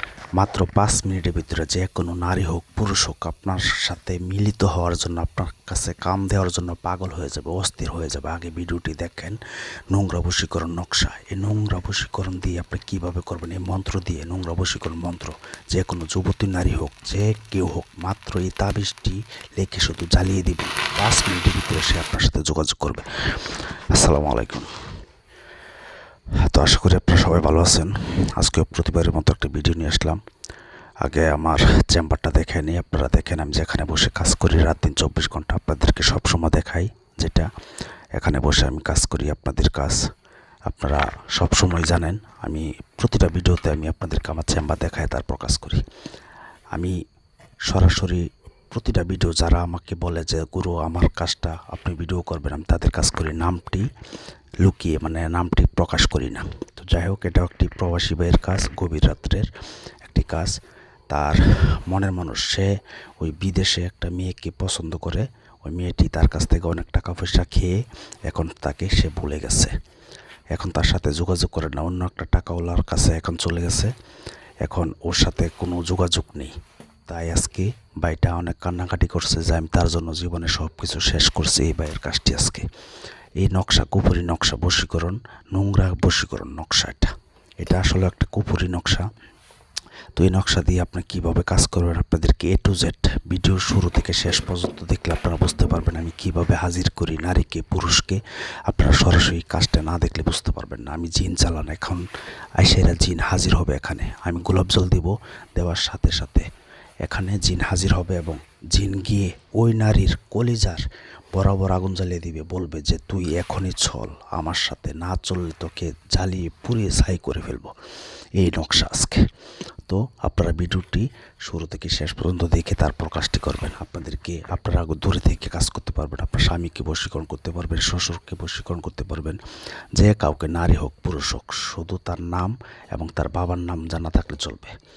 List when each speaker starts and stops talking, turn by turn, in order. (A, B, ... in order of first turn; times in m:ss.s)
0:00.4-0:09.4 A
0:09.9-0:24.7 A
0:26.4-0:30.2 A
0:31.0-0:37.5 A
0:38.2-0:40.0 A
0:40.7-0:45.8 A
0:47.7-0:53.9 A
0:54.6-0:59.5 A
1:00.0-1:00.6 A
1:01.1-1:09.7 A
1:10.5-1:13.9 A
1:14.6-1:16.5 A
1:17.1-1:22.7 A
1:23.4-1:29.1 A
1:30.2-1:42.1 A
1:42.6-1:46.5 A
1:47.0-1:57.7 A
1:58.4-1:59.3 A
1:59.9-2:09.4 A
2:10.0-2:14.7 A